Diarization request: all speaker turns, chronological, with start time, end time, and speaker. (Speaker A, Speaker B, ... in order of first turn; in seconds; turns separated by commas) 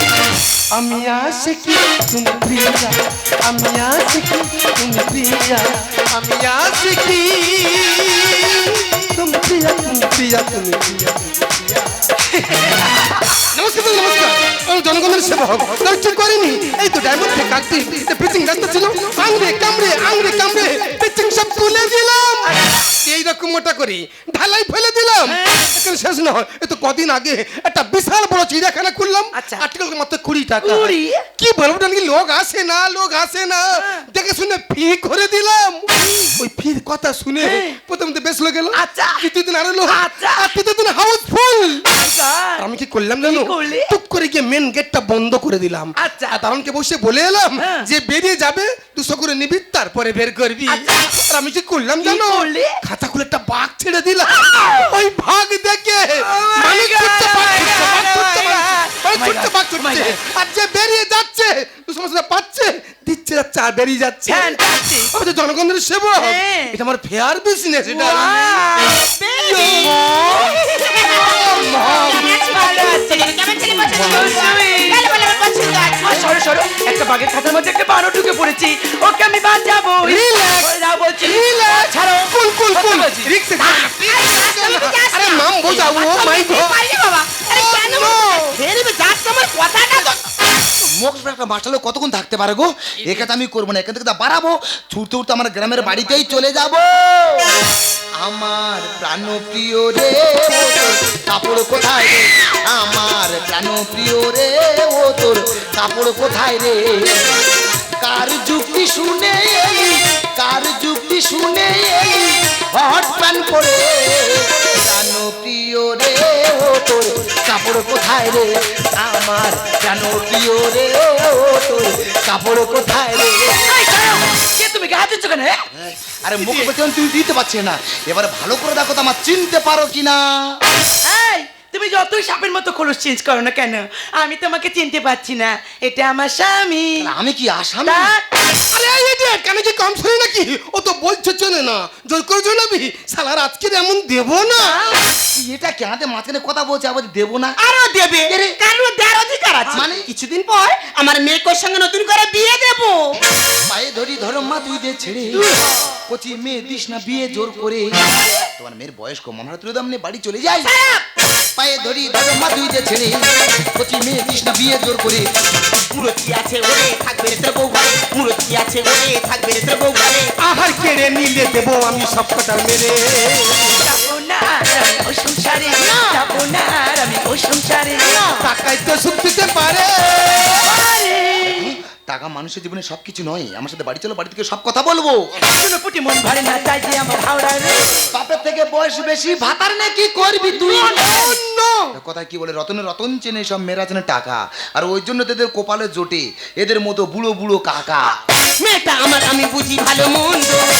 Speaker A: 0.7-11.9, Speaker B: 12.4-13.4, Speaker A: 13.4-41.9, Speaker B: 22.4-22.8, Speaker B: 25.3-25.7, Speaker B: 29.3-29.6, Speaker B: 30.6-31.2, Speaker B: 33.7-34.0, Speaker B: 36.0-36.3, Speaker B: 37.4-37.8, Speaker B: 38.7-39.3, Speaker B: 39.9-40.5, Speaker B: 41.9-42.6, Speaker A: 42.6-64.6, Speaker B: 43.2-43.9, Speaker B: 46.0-46.4, Speaker B: 47.6-47.9, Speaker B: 50.7-51.2, Speaker B: 52.0-52.8, Speaker B: 54.4-54.9, Speaker B: 56.2-60.2, Speaker B: 64.3-65.2, Speaker A: 65.1-68.6, Speaker B: 66.2-66.8, Speaker B: 67.8-70.6, Speaker C: 69.0-76.3, Speaker A: 69.6-70.2, Speaker B: 71.1-75.4, Speaker A: 71.2-72.3, Speaker A: 74.1-74.3, Speaker B: 76.0-82.0, Speaker A: 80.0-86.8, Speaker B: 82.7-83.3, Speaker C: 83.6-90.2, Speaker A: 87.5-88.6, Speaker D: 90.9-97.5, Speaker D: 98.2-107.4, Speaker D: 108.0-123.7, Speaker B: 123.7-125.6, Speaker D: 125.7-130.6, Speaker B: 126.4-126.7, Speaker B: 131.0-137.1, Speaker D: 137.0-138.1, Speaker B: 137.9-138.2, Speaker A: 138.7-144.8, Speaker B: 144.6-145.0, Speaker D: 145.3-147.6, Speaker C: 147.6-153.2, Speaker D: 148.3-148.6, Speaker D: 149.7-150.1, Speaker D: 153.6-155.5, Speaker B: 155.4-155.8, Speaker D: 156.1-160.7, Speaker C: 160.5-161.1, Speaker D: 161.6-165.3, Speaker C: 165.9-170.3, Speaker A: 170.4-173.8, Speaker B: 173.7-178.2, Speaker A: 178.4-180.7, Speaker B: 180.6-181.7, Speaker D: 181.4-185.3, Speaker B: 185.4-188.1, Speaker D: 188.1-191.2, Speaker A: 190.7-191.9, Speaker B: 190.8-191.3, Speaker D: 191.9-198.2, Speaker C: 198.6-200.6